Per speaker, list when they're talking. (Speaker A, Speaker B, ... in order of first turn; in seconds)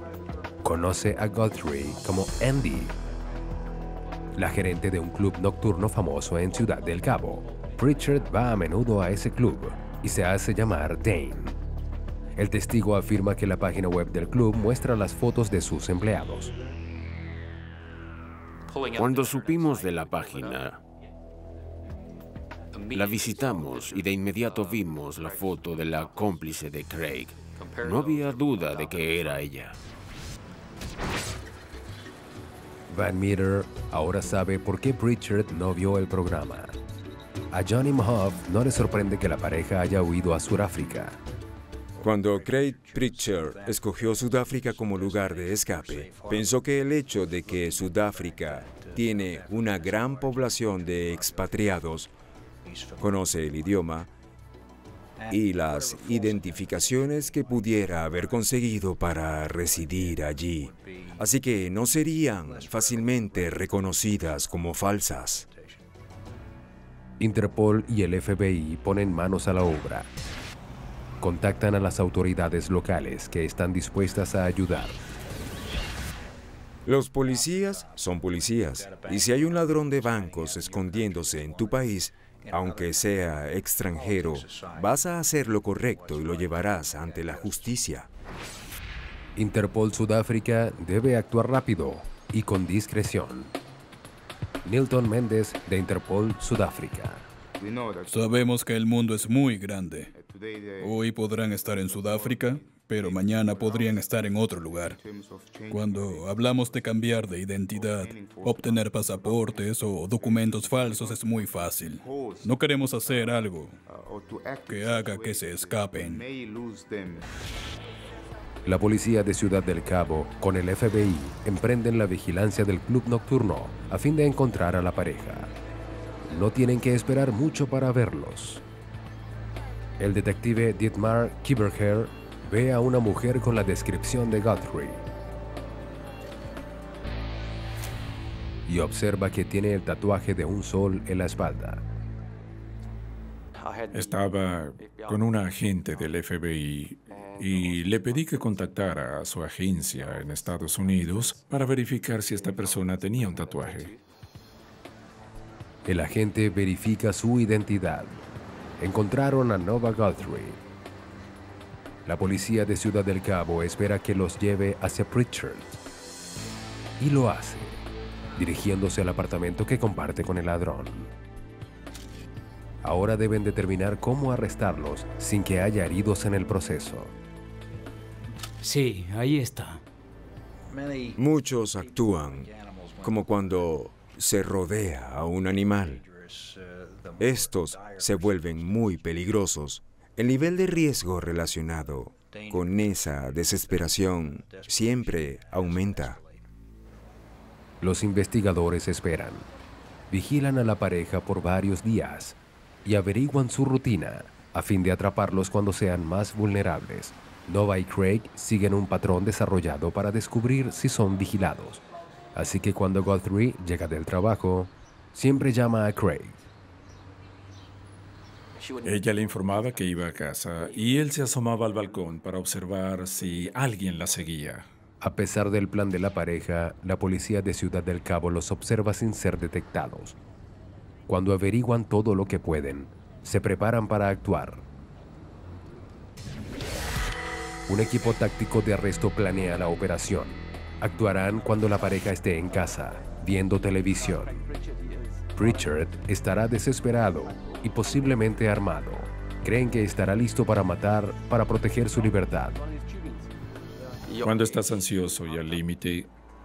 Speaker A: 0.6-3.0, 4.3-11.6, 12.4-16.5, 32.9-36.8, 37.5-41.2, 67.2-70.1, 71.2-75.0, 89.4-93.5, 94.6-97.3, 118.7-125.5, 126.3-128.6, 130.0-135.1, 138.7-141.8, 155.9-158.2, 158.8-160.6, 162.1-165.8, 167.0-167.8, 168.4-171.1, 172.8-177.1, 197.8-199.5, 200.1-216.4, 225.0-230.2, 231.1-234.6, 237.7-244.4, 245.3-252.6
Speaker B: 19.0-20.8, 22.9-29.8
Speaker C: 42.0-52.1, 53.0-54.1, 55.3-65.5, 76.9-88.1, 181.2-182.5, 183.0-186.0, 187.2-196.2
Speaker D: 98.1-100.1, 100.8-105.0, 105.7-113.8, 114.7-116.3
Speaker E: 143.9-153.9, 218.8-224.7, 254.2-256.1